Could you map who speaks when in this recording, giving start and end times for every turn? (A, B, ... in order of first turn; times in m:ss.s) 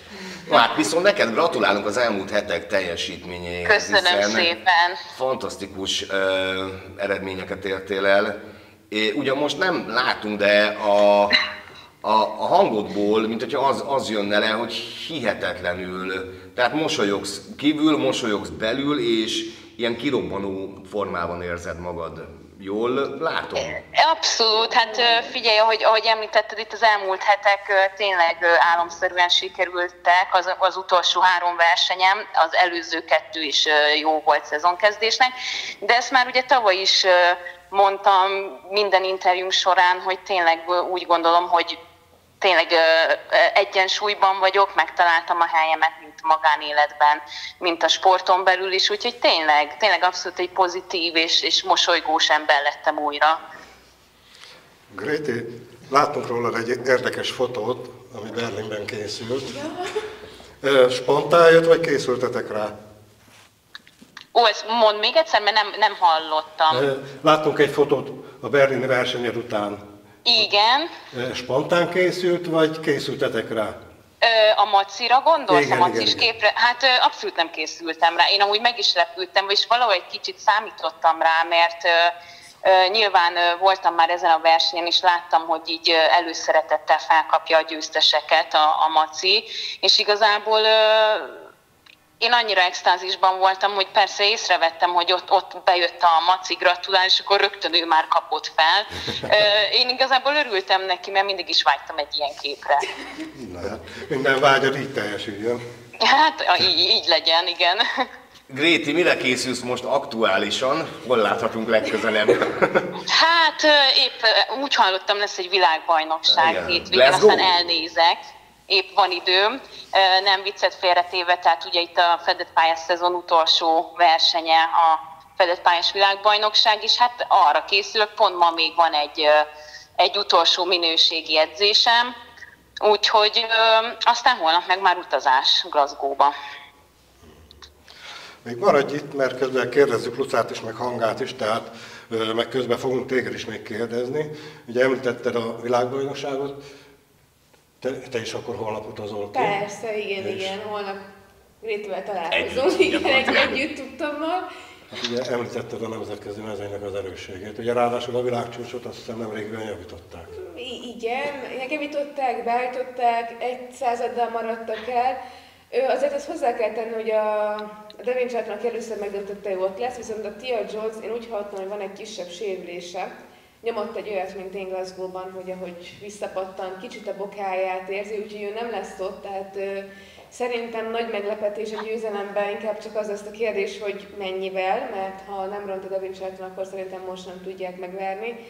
0:00.4-0:04.5 A
0:03.6-0:05.0 B
0:05.0-0:08.4 A
0:08.9-0:11.4 A
0:12.0-0:23.8 A
0:23.6-0:41.8 B
0:42.4-0:53.4 B
0:54.9-0:59.6 C
0:59.5-1:00.0 D
1:00.6-1:02.7 C
1:04.3-1:06.8 B
1:06.7-1:09.8 C
1:10.2-1:10.9 B
1:11.1-1:13.8 C
1:14.2-1:31.4 B
1:15.5-1:16.3 C
1:32.2-1:42.9 B
1:43.3-1:45.6 C
1:46.0-1:48.1 B
1:48.5-1:52.9 A
1:53.1-2:09.4 B
1:56.3-1:57.5 A
2:10.0-2:12.1 B
2:12.8-2:16.3 B
2:18.4-2:26.6 C
2:27.8-2:29.5 C
2:29.3-2:31.0 D
2:30.2-2:30.5 C
2:31.6-2:34.4 D
2:32.3-2:33.6 A
2:34.9-2:40.3 C
2:40.3-2:45.2 D
2:45.7-2:53.1 D
2:53.6-3:08.4 D